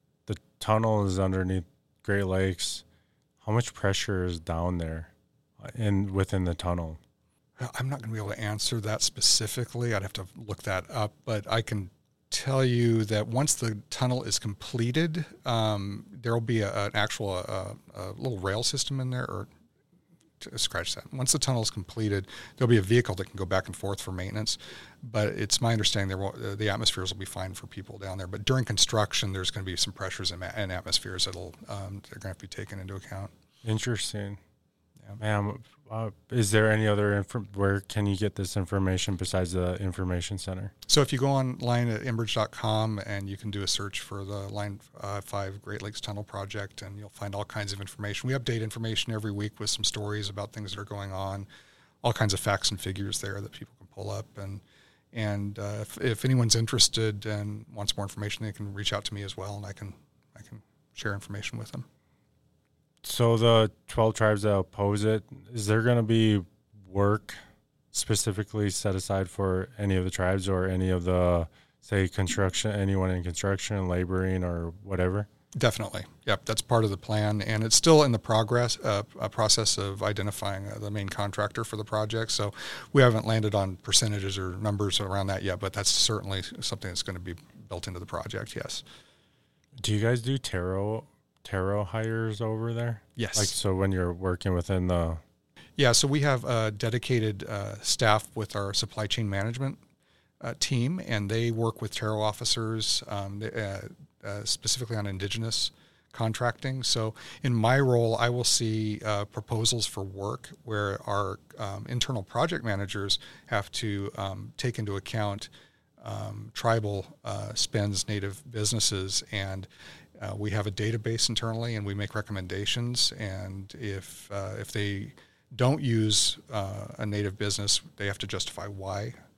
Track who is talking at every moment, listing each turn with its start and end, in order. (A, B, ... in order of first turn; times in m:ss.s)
0:00.3-0:02.8 A
0:03.4-0:07.0 A
0:07.6-0:19.5 B
0:20.4-0:33.3 B
0:33.6-0:34.4 A
0:35.2-0:40.7 A
0:40.9-0:51.5 B
0:52.0-0:54.6 B
0:55.1-1:01.9 B
1:03.0-1:07.4 A
1:07.9-1:15.3 A
1:15.5-1:28.8 B
1:29.8-1:35.2 A
1:33.2-1:33.5 B
1:35.8-1:39.8 B
1:40.4-2:09.2 B